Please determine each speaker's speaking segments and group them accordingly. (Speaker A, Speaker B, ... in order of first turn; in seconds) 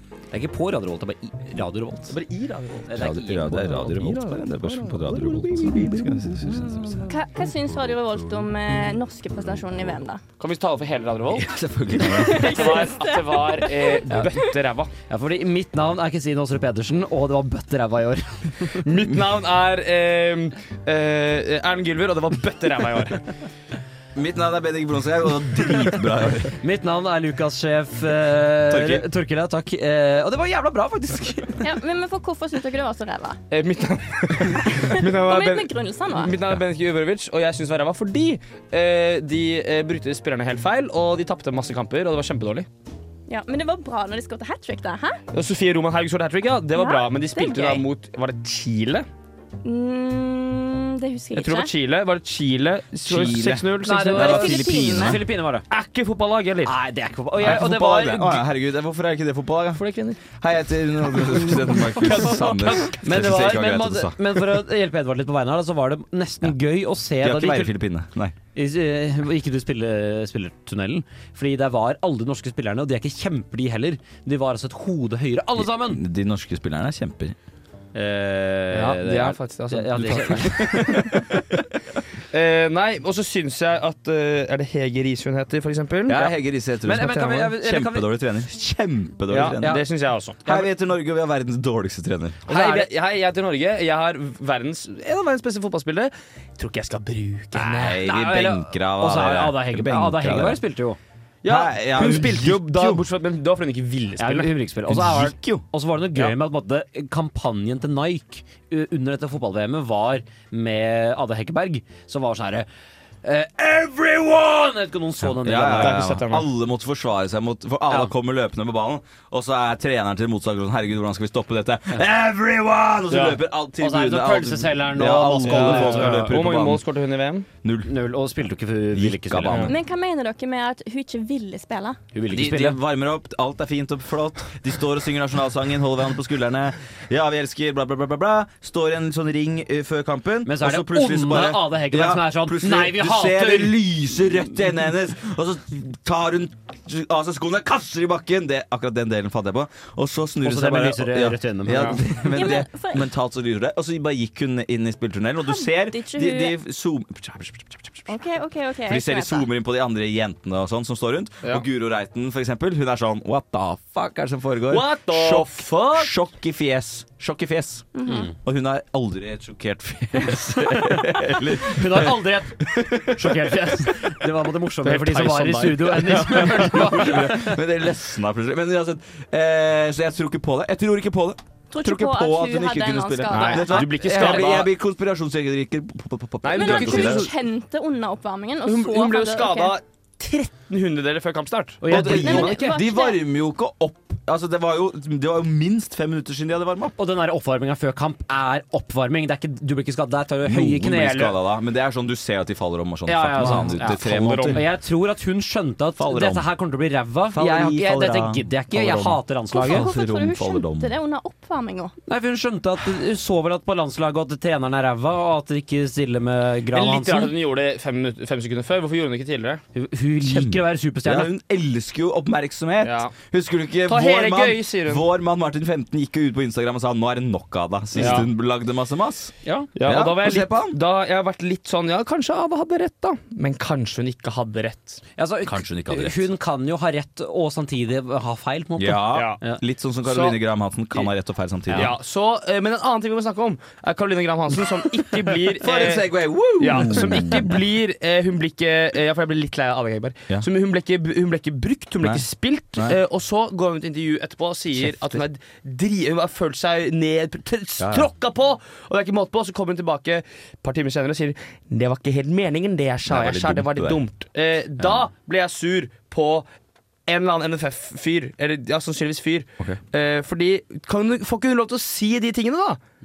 Speaker A: 0.3-2.1, 2.9-4.0, 15.1-18.8, 26.6-31.6, 53.8-55.6, 56.6-58.4, 63.0-67.7, 68.5-76.0, 77.9-81.2, 86.8-88.1, 92.5-92.9, 98.0-101.0, 104.2-112.7, 113.2-116.0, 123.8-126.3, 127.8-129.7, 132.1-132.8, 140.4-144.3, 150.4-152.0, 168.1-168.3, 171.6-177.6, 184.1-184.5, 191.8-192.7, 197.0-201.4, 203.1-209.9, 212.1-217.3, 219.7-221.3, 227.9-228.2, 229.4-229.7, 235.2-239.6, 246.9-247.3
Speaker B: 2.1-3.0, 3.7-5.8, 10.4-11.5, 12.3-14.9, 18.8-23.2, 33.5-42.7, 45.3-49.1, 51.3-54.5, 55.7-56.7, 59.7-60.2, 61.7-63.0, 78.7-81.6, 82.3-86.3, 87.0-87.4, 89.3-90.7, 92.5-98.0, 101.4-104.5, 115.6-116.5, 123.1-123.4, 125.3-127.5, 164.7-166.1, 174.8-177.4, 183.3-184.7, 186.4-187.3, 188.7-192.2, 203.3-204.6, 216.7-219.6, 222.8-223.1, 223.8-225.0, 227.9-228.3, 229.8-235.0, 239.1-239.4, 240.0-240.4, 241.7-266.4, 267.1-272.8
Speaker C: 3.0-7.1, 7.7-8.2, 11.3-12.7, 24.1-26.6, 28.7-29.1, 53.0-55.2, 57.4-64.5, 67.2-68.3, 75.6-77.3, 86.1-89.8, 90.4-92.6, 97.5-100.6, 101.4-103.0, 104.9-105.6, 115.2-126.8, 127.6-127.9, 128.9-129.7, 132.3-158.1, 158.9-167.9, 168.4-173.8, 176.0-187.3, 191.9-197.0, 200.4-204.6, 205.9-206.5, 207.3-210.9, 220.2-230.8, 235.4-236.3, 238.8-241.9, 245.6-247.6, 254.8-255.2, 257.8-258.1, 263.0-264.0
Speaker D: 7.1-10.2, 12.0-14.0, 31.6-33.4, 34.7-36.3, 43.3-45.2, 46.8-47.8, 49.6-51.7, 54.1-55.2, 129.7-132.0, 152.2-153.1, 155.4-156.6, 158.1-159.5, 167.9-168.3, 181.7-184.1, 186.5-189.7, 191.9-193.2, 209.5-211.9